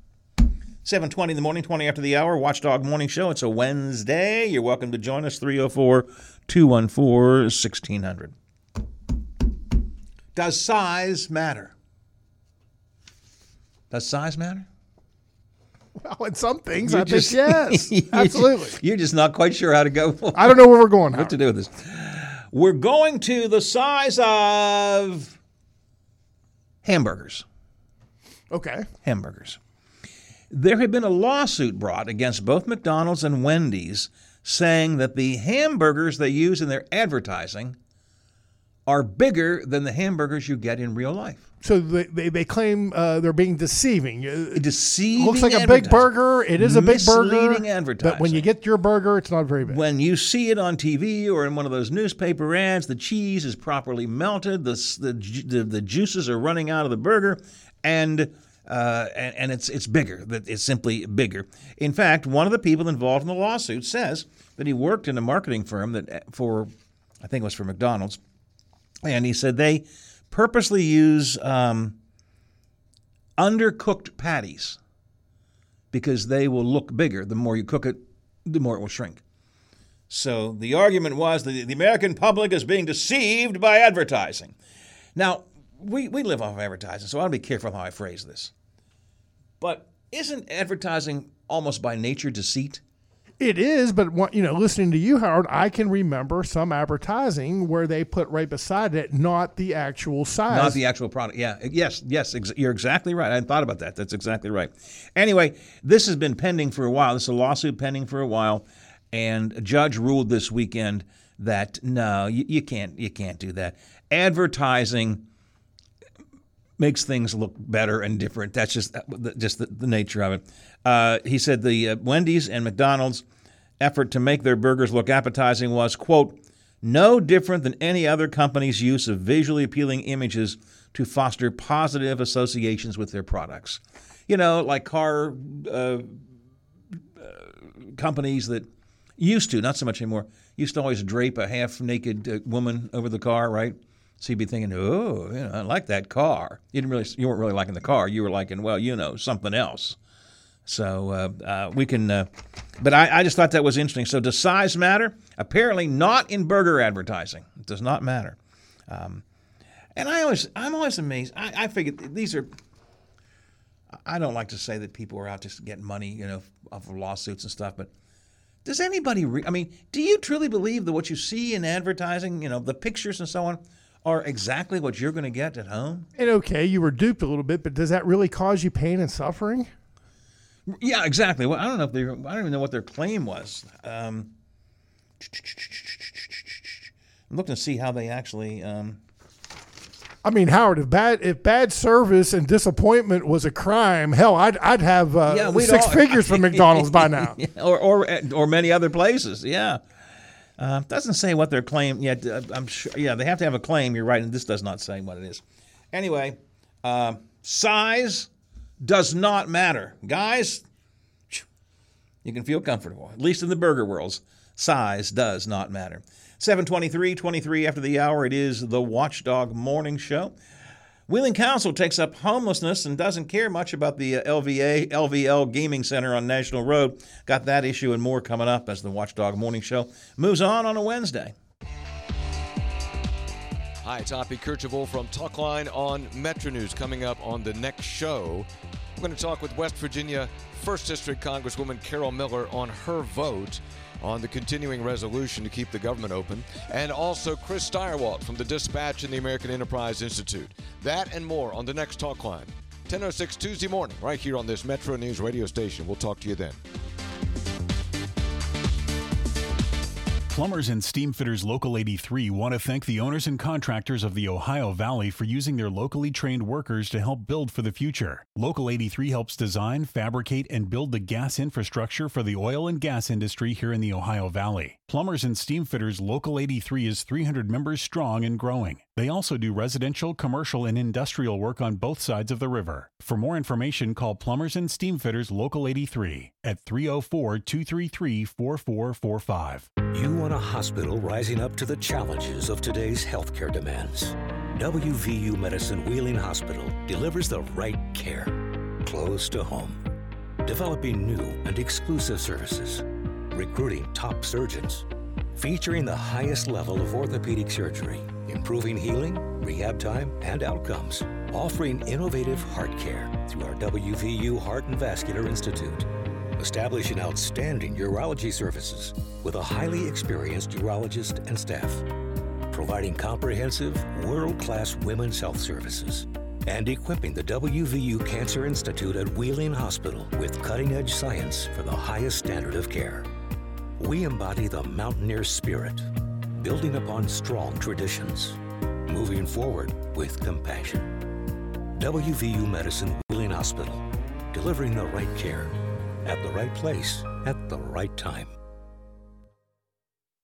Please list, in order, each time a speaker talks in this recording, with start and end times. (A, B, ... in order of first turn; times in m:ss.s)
0:00.8-0:08.3 A
0:10.4-0:11.7 A
0:13.9-0:14.7 A
0:16.0-0:18.8 B
0:16.8-0:25.4 A
0:20.4-0:21.3 B
0:26.8-0:27.4 A
0:28.5-0:28.9 B
0:29.0-0:29.6 A
0:30.5-0:37.8 A
0:38.9-0:41.4 A
0:41.6-0:44.6 B
0:44.5-0:48.5 A
0:45.2-0:49.8 B
0:49.7-1:08.2 A
1:09.0-1:12.0 A
1:13.4-1:14.8 A
1:15.9-1:19.2 A
1:20.1-1:24.6 A
1:25.2-1:28.5 A
1:29.6-1:32.8 A
1:33.4-1:40.8 B
1:40.5-1:55.2 A
1:56.8-2:03.3 A
2:03.8-2:16.2 A
2:17.2-2:30.0 A
2:30.6-2:38.4 A
2:38.9-2:39.2 A
2:40.0-2:42.5 A
2:43.9-2:47.9 A
2:48.6-2:56.1 A
2:56.2-2:59.7 B
3:00.7-3:04.3 A
3:05.2-3:09.0 A
3:10.2-3:17.4 B
3:15.3-3:19.8 A
3:20.6-3:28.3 A
3:28.8-3:30.6 A
3:32.2-3:40.4 A
3:41.1-3:51.4 A
3:53.8-4:16.6 C
4:20.3-4:49.7 D
4:49.9-4:59.8 E
5:00.4-5:21.9 E
5:22.5-5:33.1 E
5:33.8-5:41.0 E
5:41.8-5:48.4 E